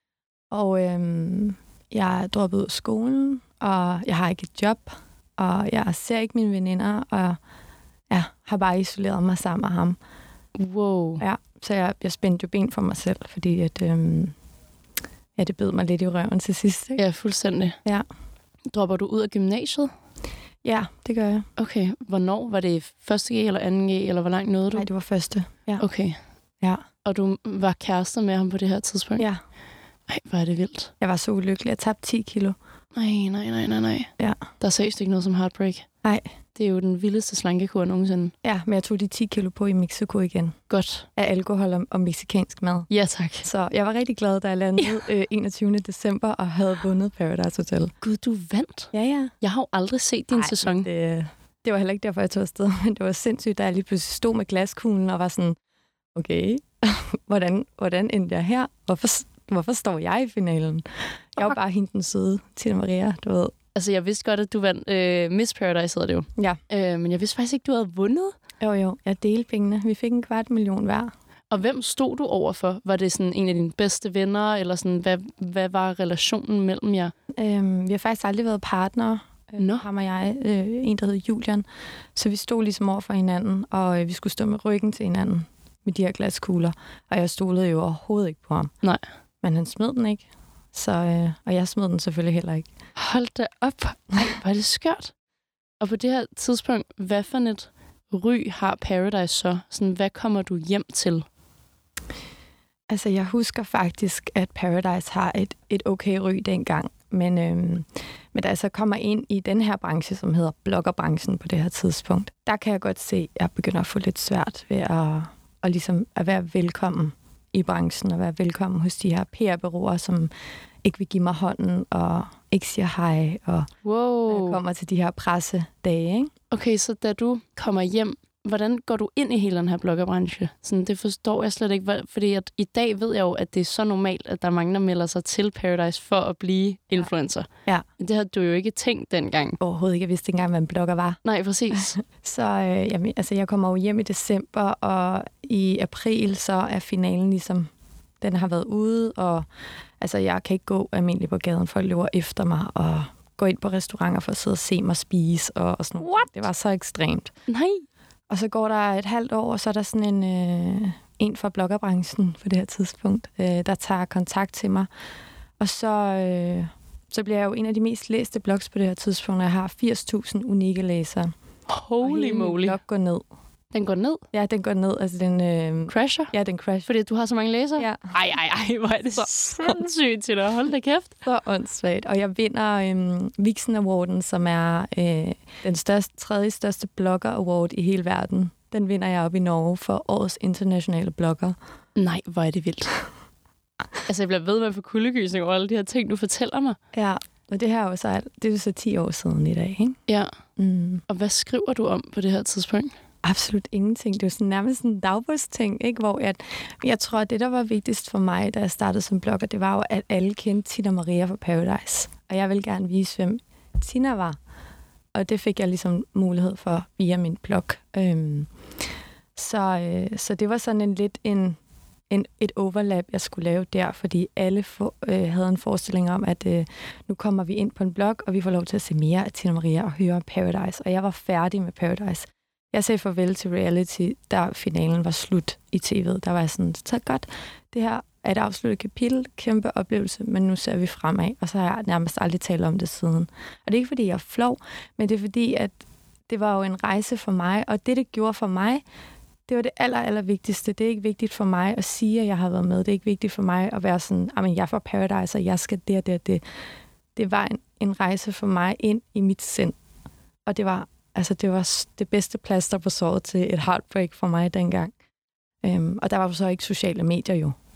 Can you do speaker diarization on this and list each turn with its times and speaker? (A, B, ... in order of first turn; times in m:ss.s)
0:00.5-0:07.4 A
0:08.1-0:10.0 A
0:10.6-0:11.2 B
0:11.2-0:14.3 A
0:15.4-0:17.0 A
0:17.0-0:17.8 B
0:18.7-0:19.9 B
0:20.6-0:21.4 A
0:21.6-0:24.9 B
0:24.8-0:25.8 A
0:25.8-0:26.2 B
0:27.0-0:29.2 B
0:30.1-0:30.9 B
0:31.0-0:32.6 A
0:32.9-0:35.9 B
0:36.6-0:38.3 B
0:38.4-0:40.6 A
0:40.7-0:41.1 B
0:41.1-0:42.9 A
0:42.9-0:43.5 B
0:43.4-0:47.9 A
0:48.0-0:50.9 B
0:48.9-0:49.3 A
0:50.3-0:55.6 A
0:56.1-1:00.8 A
1:01.4-1:03.5 A
1:03.8-1:08.4 B
1:08.6-1:11.1 A
1:11.5-1:17.1 B
1:17.4-1:28.7 A
1:19.6-1:19.8 B
1:29.4-1:32.7 A
1:33.0-1:35.1 B
1:35.8-1:41.2 B
1:42.9-2:00.3 A
2:00.8-2:03.7 A
2:03.8-2:04.6 B
2:04.3-2:06.3 A
2:06.5-2:19.6 B
2:19.6-2:21.2 A
2:21.2-2:21.9 B
2:21.7-2:27.7 A
2:28.2-2:29.4 A
2:30.0-2:37.3 A
2:36.0-2:36.3 B
2:37.5-2:37.8 B
2:38.3-2:44.9 A
2:45.6-2:51.3 A
2:51.7-2:52.8 B
2:52.0-2:53.2 A
2:53.7-2:54.2 B
2:54.3-2:56.9 A
2:55.9-2:56.3 B
2:56.9-3:01.1 B
2:57.8-2:58.0 A
2:59.1-2:59.8 A
3:01.2-3:11.6 A
3:12.0-3:13.0 B
3:14.1-3:16.8 B
3:16.9-3:20.0 A
3:20.6-3:21.0 A
3:21.1-3:22.9 B
3:23.2-3:34.4 A
3:35.1-3:38.5 A
3:39.4-3:41.6 A
3:42.1-4:05.7 A
4:06.3-4:08.8 A
4:09.5-4:16.4 A
4:17.2-4:19.8 A
4:20.5-4:24.9 A
4:25.6-4:27.5 A